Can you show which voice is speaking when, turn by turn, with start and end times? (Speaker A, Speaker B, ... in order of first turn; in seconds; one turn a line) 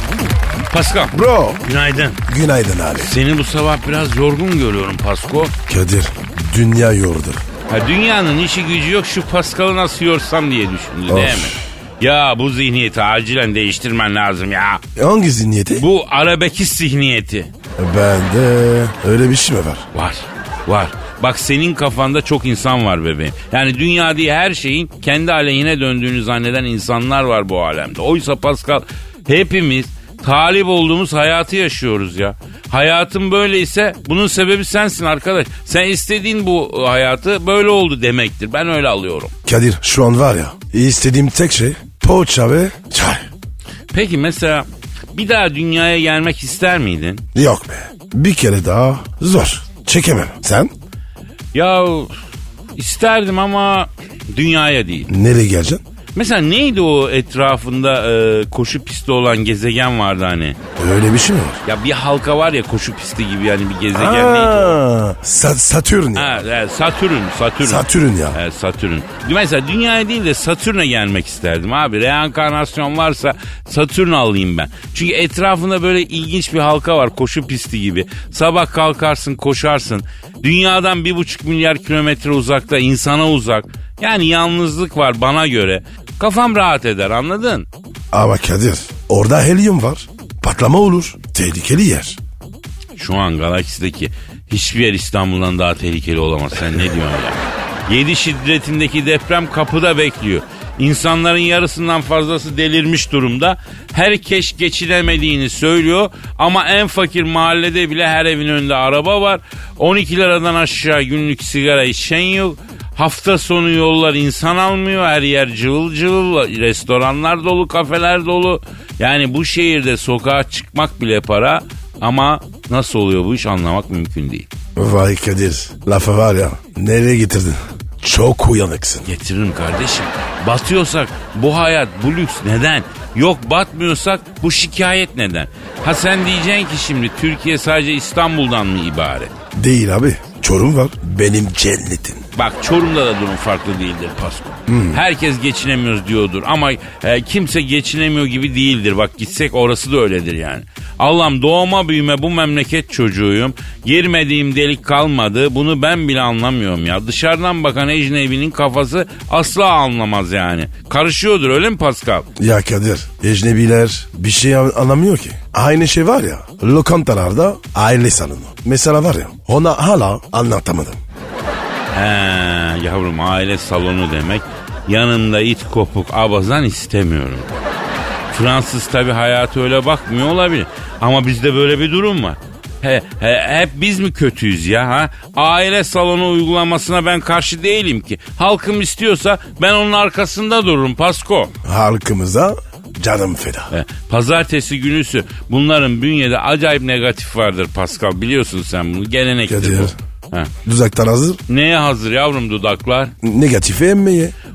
Speaker A: 0.7-2.2
Speaker B: 1.1-1.7
Speaker B: 2.3-3.1
Speaker A: 3.0-5.5
Speaker B: 5.7-7.4
Speaker A: 7.7-14.8
Speaker B: 11.1-11.6
Speaker B: 15.0-15.8
Speaker A: 15.7-17.5
Speaker B: 17.8-19.9
Speaker A: 19.9-39.3
Speaker B: 39.5-43.3
Speaker A: 43.9-47.2
Speaker B: 47.4-50.7
Speaker A: 51.5-52.2
Speaker A: 52.8-55.1
Speaker B: 55.1-55.8
Speaker A: 56.1-60.6
Speaker B: 60.8-61.6
Speaker A: 61.6-64.8
Speaker B: 63.9-66.4
Speaker A: 66.2-87.7
Speaker B: 67.6-68.4
Speaker B: 88.1-92.2
Speaker A: 93.0-124.5
Speaker B: 124.8-129.1
Speaker A: 129.1-139.3
Speaker B: 139.5-142.2
Speaker A: 142.3-162.3
Speaker B: 144.7-145.0
Speaker B: 162.4-171.0
Speaker A: 171.9-177.6
Speaker A: 178.3-191.5
Speaker B: 191.6-193.7
Speaker A: 193.7-200.5
Speaker B: 199.5-199.9
Speaker B: 200.7-201.4
Speaker A: 201.5-203.1
Speaker B: 203.2-204.3